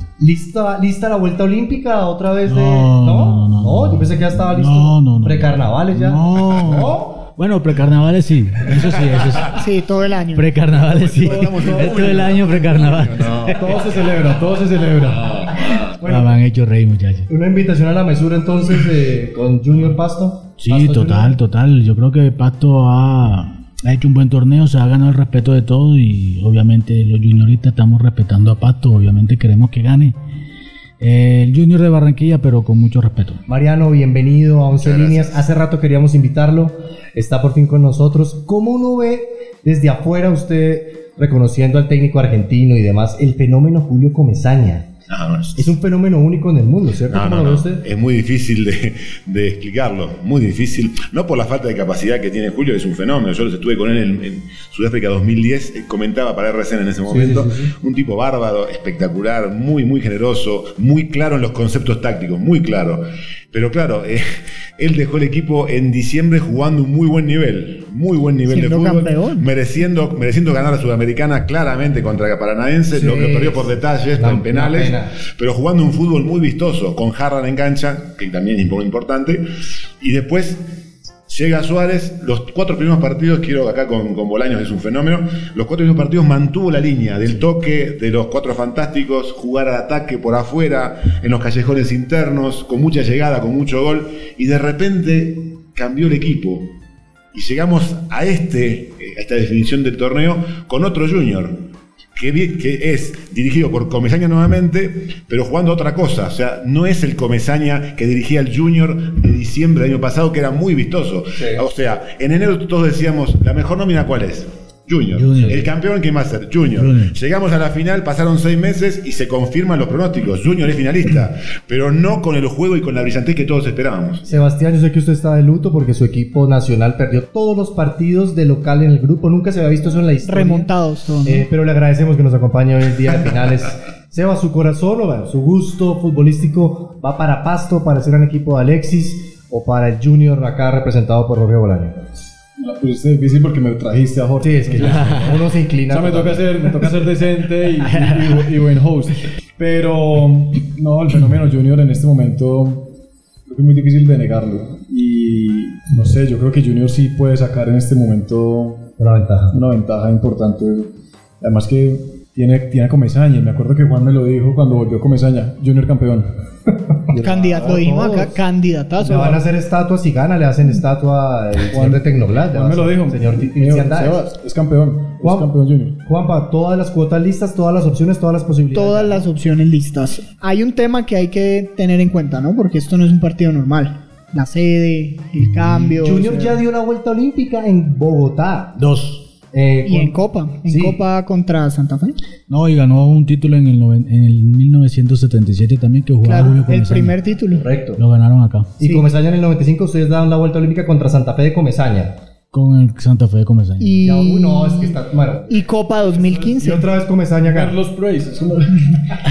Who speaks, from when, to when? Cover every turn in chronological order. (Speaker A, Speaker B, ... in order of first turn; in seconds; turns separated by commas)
Speaker A: 0.2-7.3, Speaker B: 2.5-9.6, Speaker C: 9.4-10.7, Speaker B: 10.3-13.6, Speaker D: 10.8-14.2, Speaker E: 13.5-15.5, Speaker D: 15.1-15.9, Speaker A: 15.9-16.3, Speaker B: 16.0-17.3, Speaker A: 17.3-21.4, Speaker B: 20.6-30.2, Speaker B: 31.0-33.5, Speaker A: 33.5-44.9, Speaker D: 34.8-35.4, Speaker D: 45.1-45.8, Speaker A: 45.6-47.9, Speaker D: 47.1-64.2, Speaker A: 57.1-57.7, Speaker D: 64.8-79.5, Speaker C: 68.5-69.5, Speaker A: 72.9-75.2, Speaker D: 80.0-80.7, Speaker D: 81.3-96.7, Speaker D: 97.3-101.6, Speaker D: 102.2-124.4, Speaker A: 111.3-111.6, Speaker B: 115.1-115.7, Speaker B: 116.8-117.2, Speaker A: 124.3-130.7, Speaker C: 130.3-131.5, Speaker A: 131.2-142.1, Speaker E: 142.6-152.9, Speaker A: 144.4-147.0, Speaker E: 153.5-158.9, Speaker A: 159.0-159.6, Speaker E: 159.5-160.9, Speaker E: 161.4-166.3, Speaker A: 167.1-168.4, Speaker E: 167.2-167.9, Speaker C: 167.2-169.4, Speaker E: 169.0-169.3, Speaker A: 169.0-174.2, Speaker E: 171.7-176.0, Speaker A: 175.2-175.5, Speaker A: 176.0-179.3, Speaker C: 178.7-186.6, Speaker A: 186.0-188.8, Speaker B: 188.8-189.3, Speaker A: 189.5-191.0, Speaker C: 189.8-192.2, Speaker B: 192.5-197.2, Speaker C: 196.2-197.7, Speaker A: 197.6-198.0, Speaker B: 198.0-198.8, Speaker A: 198.8-202.2, Speaker B: 202.5-204.0, Speaker C: 203.8-205.0, Speaker A: 204.0-205.7, Speaker C: 205.5-206.9, Speaker A: 206.5-207.8, Speaker E: 207.4-209.2